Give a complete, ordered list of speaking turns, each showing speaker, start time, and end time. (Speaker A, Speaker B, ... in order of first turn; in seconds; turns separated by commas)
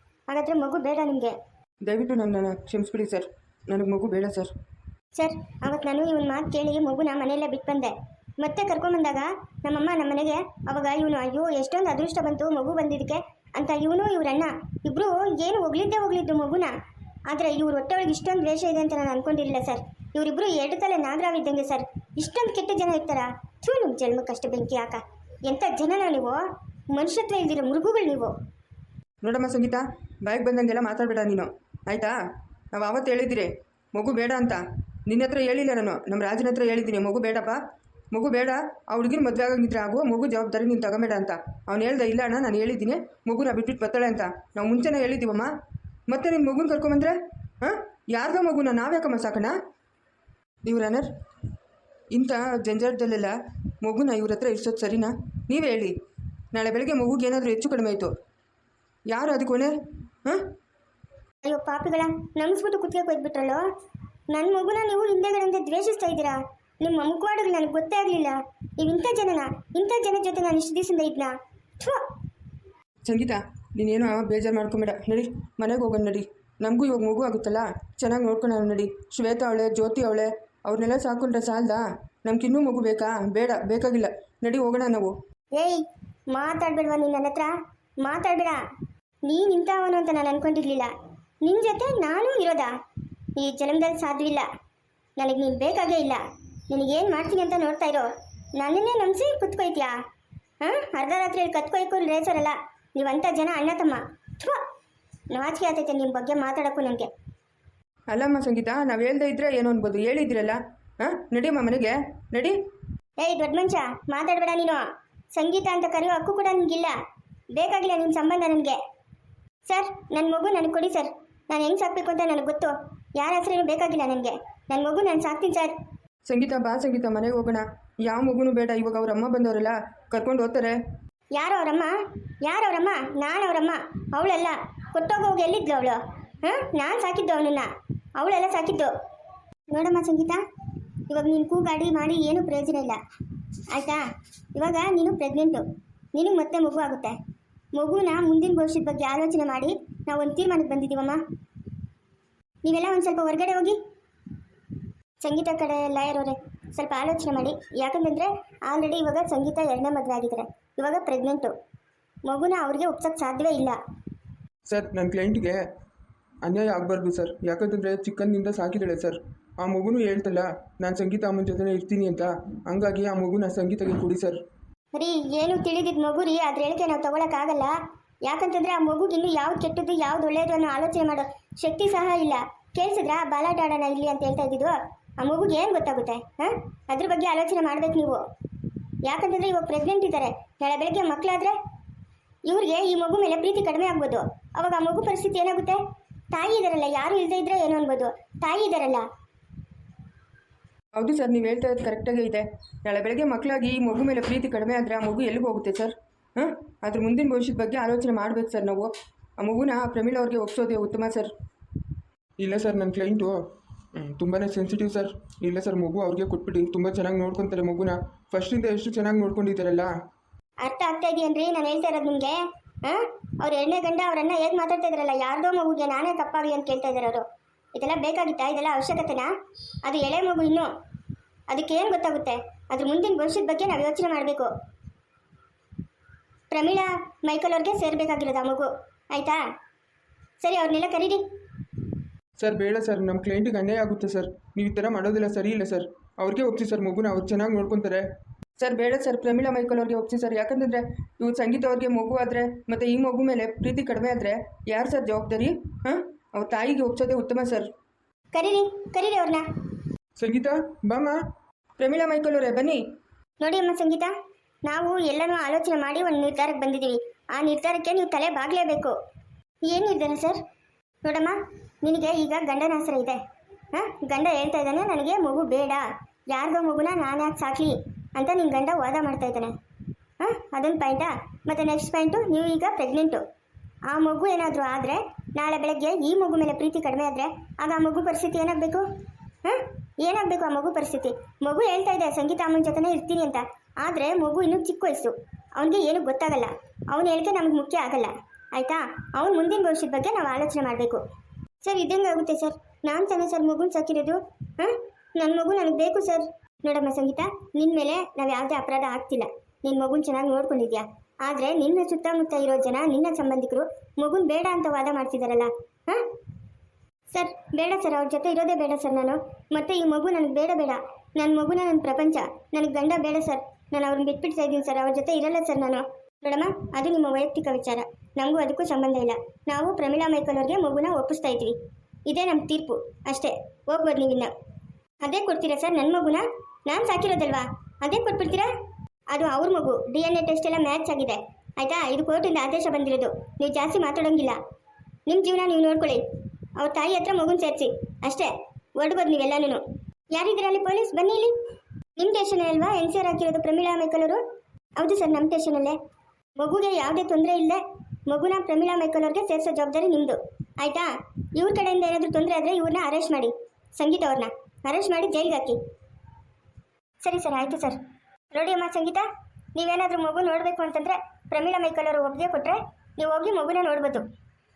Speaker A: 0.3-1.4, Speaker B: 1.9-4.5, Speaker A: 5.2-16.7, Speaker A: 17.3-26.4, Speaker A: 26.9-28.3, Speaker B: 29.2-32.1, Speaker B: 32.7-37.6, Speaker B: 38.1-45.5, Speaker B: 46.1-49.5, Speaker B: 50.6-51.1, Speaker B: 52.1-55.9, Speaker B: 56.5-58.1, Speaker B: 59.1-60.5, Speaker A: 61.5-63.6, Speaker A: 64.3-72.0, Speaker B: 73.0-85.1, Speaker A: 85.5-88.6, Speaker A: 89.3-90.9, Speaker A: 91.4-92.7, Speaker A: 93.4-94.5, Speaker A: 95.2-100.0, Speaker A: 100.6-104.6, Speaker A: 105.3-107.1, Speaker B: 108.1-112.6, Speaker A: 113.2-117.0, Speaker A: 117.5-118.8, Speaker A: 119.7-125.7, Speaker B: 126.3-130.8, Speaker A: 131.3-138.9, Speaker A: 139.7-140.4, Speaker A: 141.1-143.0, Speaker A: 143.7-144.0, Speaker A: 144.6-147.2, Speaker A: 147.8-151.2, Speaker A: 152.6-153.8, Speaker A: 155.2-161.5, Speaker A: 162.3-163.8, Speaker B: 164.7-165.5, Speaker B: 166.5-174.4, Speaker C: 169.7-170.2, Speaker C: 170.8-172.2, Speaker C: 172.7-174.1, Speaker A: 174.9-188.2, Speaker A: 189.0-191.6, Speaker A: 192.5-195.8, Speaker A: 196.3-199.1, Speaker B: 201.0-211.3, Speaker C: 212.4-213.3, Speaker B: 212.5-213.3, Speaker C: 214.2-214.7, Speaker B: 214.2-219.9, Speaker C: 215.4-218.9, Speaker A: 220.6-229.3, Speaker A: 229.8-230.7, Speaker A: 231.5-234.5, Speaker A: 236.5-239.4, Speaker A: 240.4-241.2, Speaker B: 242.4-248.0, Speaker B: 248.6-257.7, Speaker A: 258.3-259.4, Speaker B: 260.2-261.2, Speaker B: 261.8-262.8, Speaker A: 263.4-264.1, Speaker A: 264.7-268.9, Speaker A: 269.6-270.4, Speaker A: 271.0-273.2, Speaker A: 273.7-279.5, Speaker A: 280.2-283.2, Speaker A: 283.9-288.9, Speaker A: 289.4-301.0, Speaker A: 301.6-316.0, Speaker A: 317.1-331.6, Speaker A: 332.1-334.3, Speaker A: 335.0-338.5, Speaker A: 339.1-344.4, Speaker A: 345.1-346.0, Speaker A: 346.6-349.6, Speaker A: 350.1-351.3, Speaker A: 352.0-354.2, Speaker A: 354.8-355.8, Speaker A: 356.4-365.6, Speaker A: 367.0-367.8, Speaker A: 368.3-374.1